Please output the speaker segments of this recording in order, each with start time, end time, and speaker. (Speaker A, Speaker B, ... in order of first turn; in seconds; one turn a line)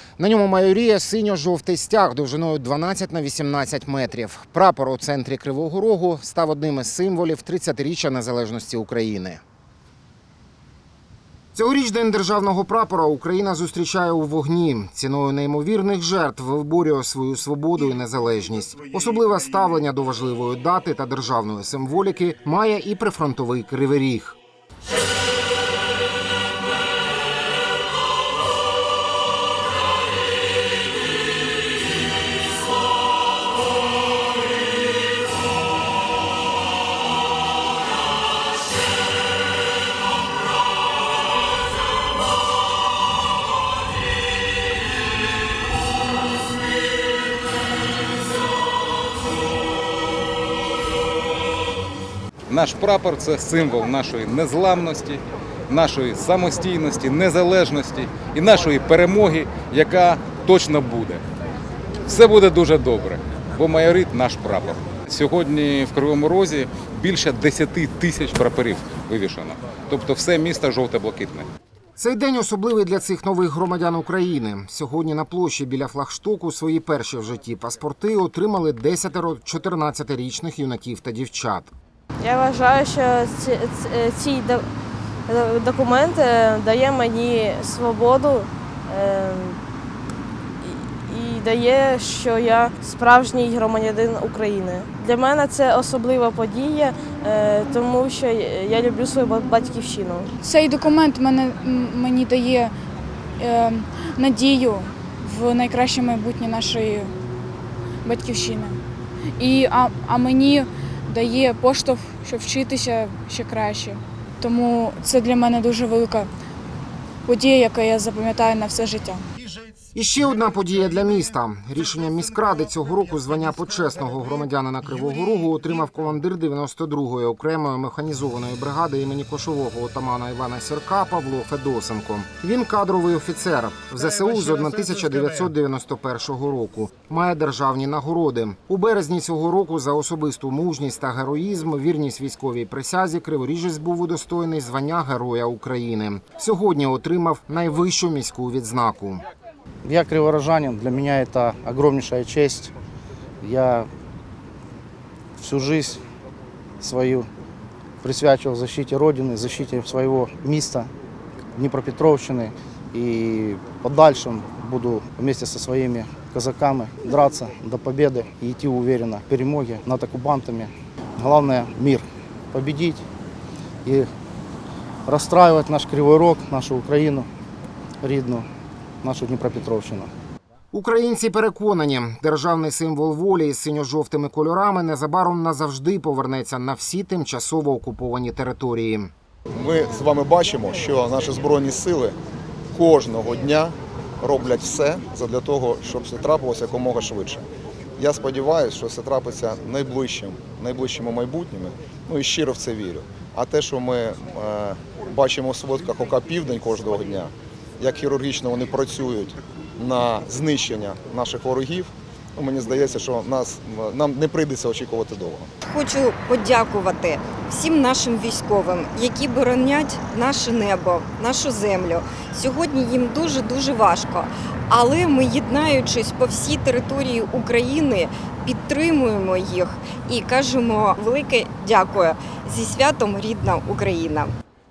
Speaker A: 0.2-9.4
Speaker A: 11.6-24.4
Speaker B: 52.5-61.2
Speaker B: 62.1-71.5
Speaker A: 72.0-81.7
Speaker C: 82.2-84.7
Speaker C: 85.3-89.6
Speaker C: 90.6-100.3
Speaker D: 100.4-102.7
Speaker D: 103.4-107.1
Speaker D: 108.0-108.8
Speaker D: 109.4-116.3
Speaker D: 117.3-119.2
Speaker A: 119.9-149.2
Speaker E: 149.8-152.7
Speaker E: 153.4-153.9
Speaker E: 155.4-156.0
Speaker E: 156.8-157.3
Speaker E: 158.0-160.9
Speaker E: 161.6-173.0
Speaker E: 173.8-174.1
Speaker E: 175.1-177.3
Speaker E: 178.0-178.5
Speaker E: 179.0-180.1
Speaker A: 180.7-189.1
Speaker F: 189.6-192.2
Speaker F: 192.7-197.4
Speaker F: 198.0-215.5
Speaker G: 215.7-234.3